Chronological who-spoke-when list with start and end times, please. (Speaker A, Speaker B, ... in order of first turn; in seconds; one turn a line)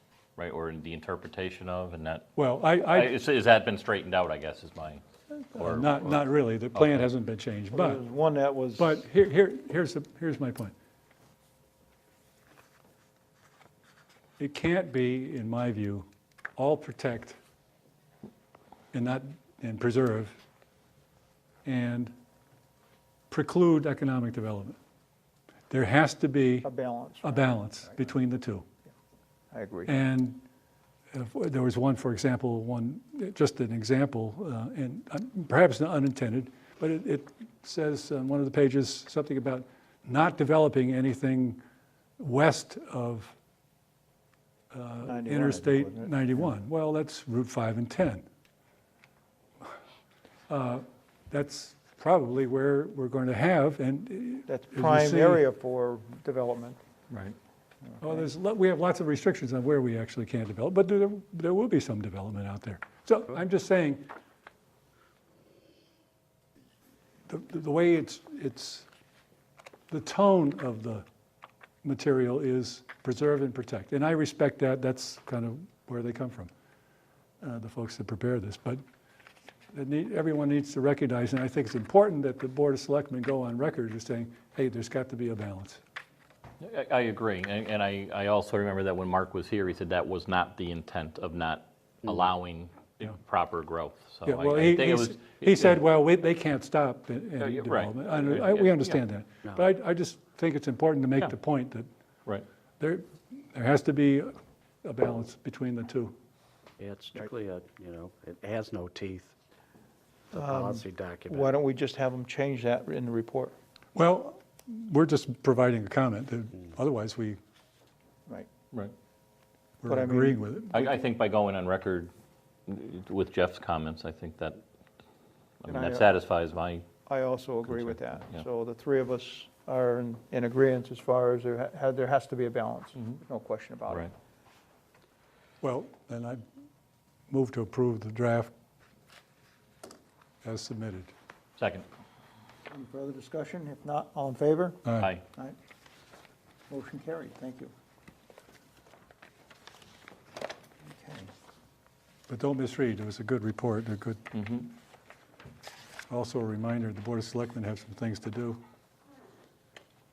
Speaker A: 0.4-2.3
Speaker B: 2.4-3.1
Speaker A: 2.9-5.0
Speaker B: 5.5-8.0
Speaker A: 5.5-7.0
Speaker C: 7.7-9.0
Speaker B: 8.8-10.7
Speaker B: 14.4-17.4
Speaker B: 18.9-20.4
Speaker B: 21.6-22.1
Speaker B: 23.3-24.8
Speaker B: 25.7-26.7
Speaker C: 26.6-28.0
Speaker B: 27.2-28.6
Speaker C: 29.5-30.0
Speaker B: 29.9-30.4
Speaker B: 31.1-41.6
Speaker B: 42.2-43.4
Speaker B: 44.7-48.2
Speaker C: 45.0-46.5
Speaker B: 50.5-55.4
Speaker C: 54.5-56.8
Speaker A: 57.1-57.4
Speaker C: 57.9-58.3
Speaker B: 58.0-64.1
Speaker B: 67.3-68.9
Speaker B: 69.9-71.0
Speaker B: 71.8-76.5
Speaker B: 77.4-78.8
Speaker B: 79.7-85.8
Speaker A: 86.6-95.8
Speaker B: 94.2-101.9
Speaker A: 97.4-99.0
Speaker B: 102.8-106.2
Speaker D: 106.8-109.3
Speaker D: 110.3-111.5
Speaker C: 110.3-113.5
Speaker B: 114.0-117.4
Speaker B: 119.8-120.8
Speaker C: 119.8-120.9
Speaker A: 120.7-122.1
Speaker A: 122.7-124.6
Speaker A: 125.6-126.8
Speaker C: 125.7-126.1
Speaker C: 127.1-134.1
Speaker A: 127.7-128.4
Speaker B: 135.6-136.4
Speaker B: 137.3-138.5
Speaker B: 140.4-141.1
Speaker A: 141.6-141.9
Speaker C: 142.7-145.6
Speaker A: 145.0-145.2
Speaker C: 146.7-147.7
Speaker C: 150.8-151.3
Speaker B: 152.3-154.3
Speaker A: 154.3-154.7
Speaker B: 156.1-158.6